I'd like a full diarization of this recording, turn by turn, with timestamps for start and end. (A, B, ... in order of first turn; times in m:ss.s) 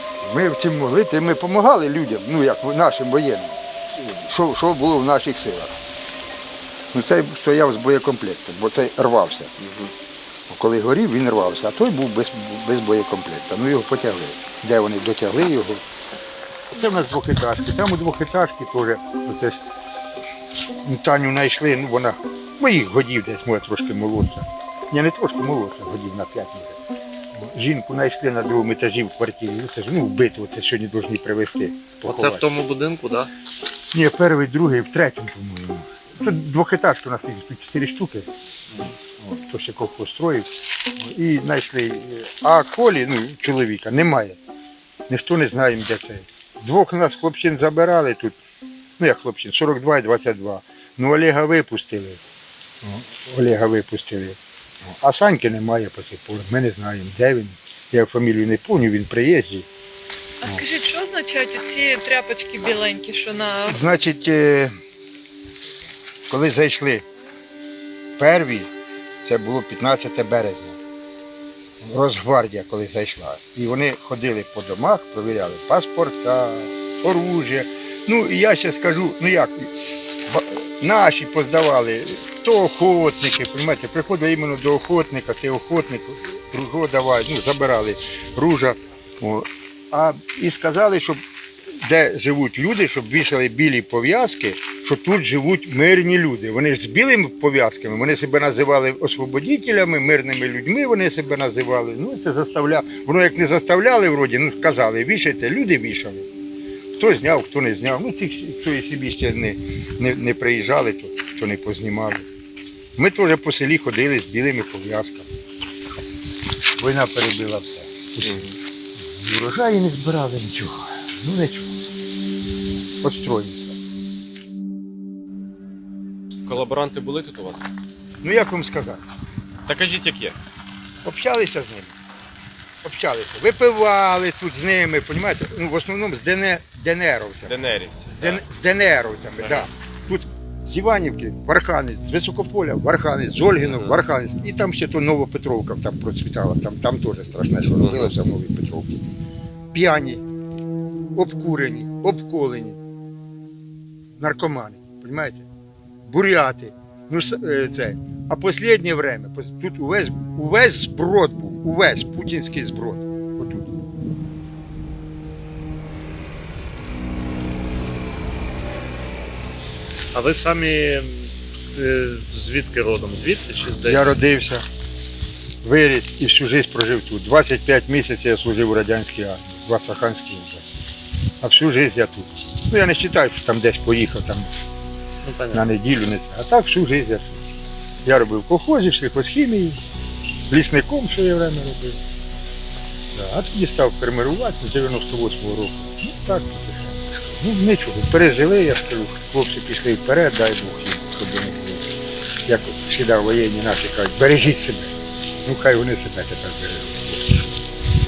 0:00.2-0:05.8 A
0:06.9-0:09.5 A
0:10.5-0:15.8 A
0:16.7-0:19.6 A
0:20.8-0:26.8 A
0:27.4-0:32.5 A
0:32.0-0:33.3 B
0:33.9-0:38.3 A
0:39.2-0:40.5 A
0:41.0-0:44.4 A
0:45.1-0:48.4 A
0:49.0-0:52.2 A
0:52.8-0:54.4 A
0:55.0-0:59.7 A
1:00.4-1:03.8 C
1:03.7-1:04.7 A
1:06.3-1:07.0 A
1:08.2-1:08.7 A
1:09.2-1:10.8 A
1:11.8-1:31.2 A
1:31.8-1:46.3 A
1:47.0-1:52.2 A
1:53.0-1:55.3 A
1:56.8-1:58.5 A
1:59.2-2:01.8 A
2:03.0-2:03.8 A
2:06.4-2:07.6 D
2:08.2-2:09.0 A
2:09.7-2:10.4 D
2:11.0-2:11.9 A
2:12.8-2:17.6 A
2:17.5-2:18.4 D
2:18.1-2:29.0 A
2:23.6-2:23.9 D
2:27.8-2:28.1 D
2:29.7-2:30.2 A
2:31.1-2:32.8 A
2:34.2-2:35.5 A
2:36.0-2:43.9 A
2:50.1-2:54.2 B
2:53.8-2:54.6 A
2:55.6-3:00.7 A
3:01.4-3:04.5 A
3:05.2-3:05.7 B
3:05.5-3:07.4 A
3:08.0-3:09.8 A
3:10.5-3:12.0 A
3:13.1-3:21.9 A
3:22.4-3:27.6 A